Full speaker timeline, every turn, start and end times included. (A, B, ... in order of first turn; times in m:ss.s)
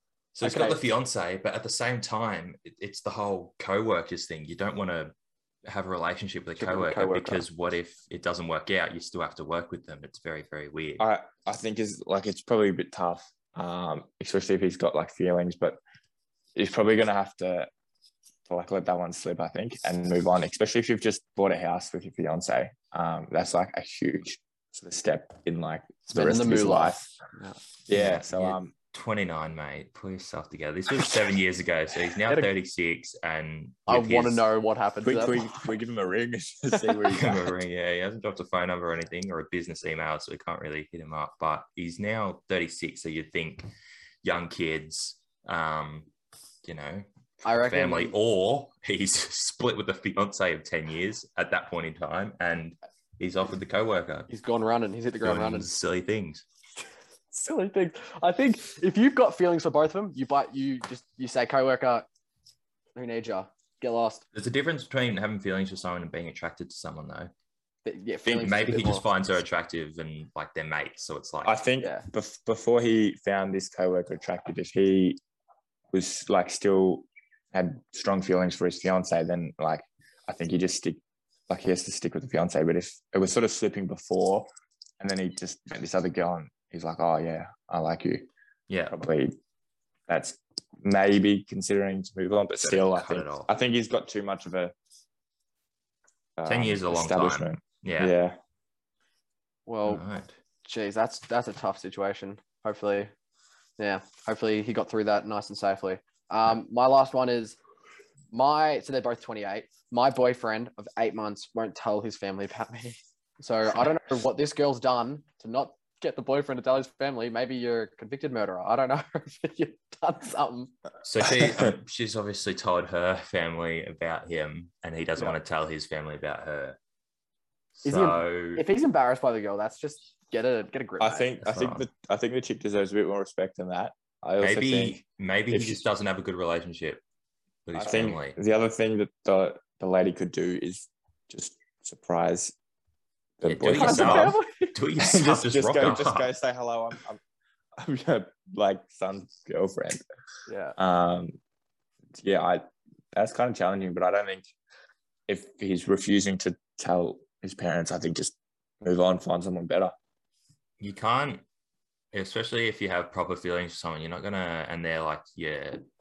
0:00.4-0:05.1 A
0:00.4-0:00.8 B
0:05.6-0:11.0 A
0:06.6-0:07.4 B
0:11.0-0:15.8 C
0:16.6-0:17.7 C
0:18.5-0:27.1 C
0:26.1-0:27.6 B
0:27.9-0:28.7 C
0:27.9-0:34.4 A
0:33.9-0:35.6 B
0:35.0-0:37.5 C
0:37.1-0:43.7 A
0:44.2-0:46.1 A
0:46.6-0:54.3 A
0:47.4-0:48.1 B
0:54.3-0:55.7 B
0:55.2-0:56.4 A
0:57.3-1:02.1 B
1:03.0-1:04.2 B
1:04.3-1:07.3 A
1:07.8-1:09.1 B
1:08.3-1:11.6 A
1:11.4-1:15.2 C
1:15.9-1:24.5 C
1:25.0-1:28.3 C
1:28.7-1:29.0 A
1:28.9-1:29.4 C
1:30.1-1:34.7 C
1:32.6-1:33.5 A
1:36.4-1:38.4 C
1:36.4-1:38.1 A
1:39.7-1:40.0 B
1:39.8-1:40.4 A
1:40.6-1:43.1 B
1:43.8-1:47.6 B
1:48.3-2:00.7 B
2:01.0-2:06.8 A
2:07.8-2:08.6 A
2:07.8-2:11.4 B
2:11.0-2:15.8 C
2:11.4-2:11.9 A
2:14.4-2:17.0 A
2:17.7-2:18.4 A
2:17.8-2:22.5 C
2:23.4-2:24.4 C
2:23.4-2:26.3 A
2:23.7-2:24.8 B
2:25.0-2:27.2 C
2:27.8-2:30.0 C
2:30.5-2:30.8 B
2:30.8-2:31.4 C
2:32.2-2:34.5 C
2:35.3-2:39.9 C
2:40.8-2:41.4 A
2:42.1-2:45.8 A